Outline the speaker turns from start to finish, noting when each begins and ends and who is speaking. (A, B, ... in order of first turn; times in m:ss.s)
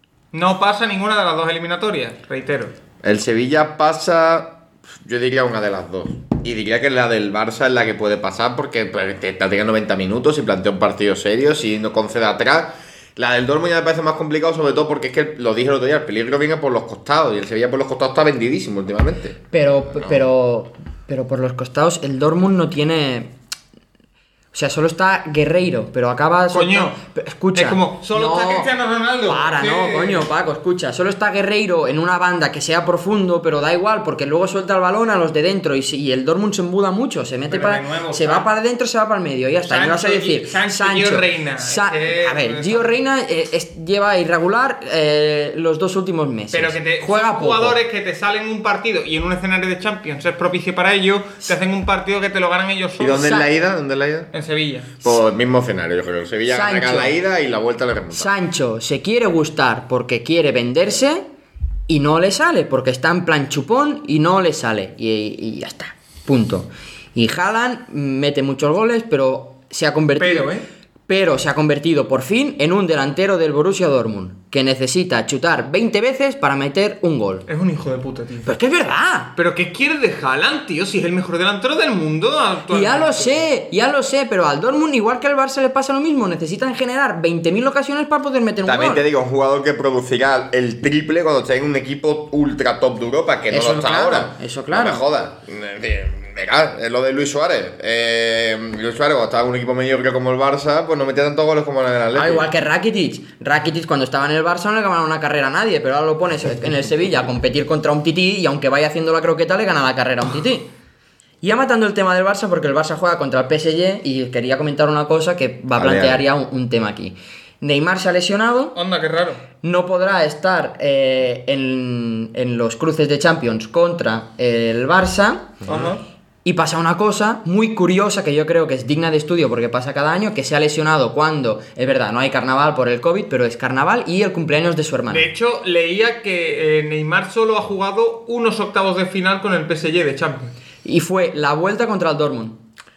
0:00.3-0:02.7 A
0:03.0-0:19.4 B
0:19.5-0:23.3 C
0:19.9-0:20.2 B
0:24.5-0:28.7 C
0:26.5-0:27.0 A
0:27.5-0:30.2 A
0:29.3-0:47.8 C
0:37.5-0:38.4 A
0:39.6-0:42.9 A
0:46.5-0:53.4 A
0:53.0-0:54.3 B
0:54.3-0:55.0 A
0:55.0-0:58.3 B
0:56.5-0:57.1 C
0:58.1-1:01.2 C
1:01.9-1:10.5 C
1:10.2-1:10.6 A
1:11.1-1:17.4 C
1:17.5-1:18.5 A
1:18.4-1:19.3 C
1:19.3-1:23.4 A
1:22.7-1:29.0 C
1:28.6-1:42.5 B
1:33.5-1:35.0 C
1:42.1-1:50.7 C
1:51.4-1:58.8 C
1:55.8-1:56.2 B
1:58.7-1:59.4 A
1:59.6-2:05.6 C
2:05.6-2:05.9 B
2:05.7-2:06.0 A
2:06.4-2:15.3 C
2:15.1-2:20.5 A
2:20.8-2:22.6 C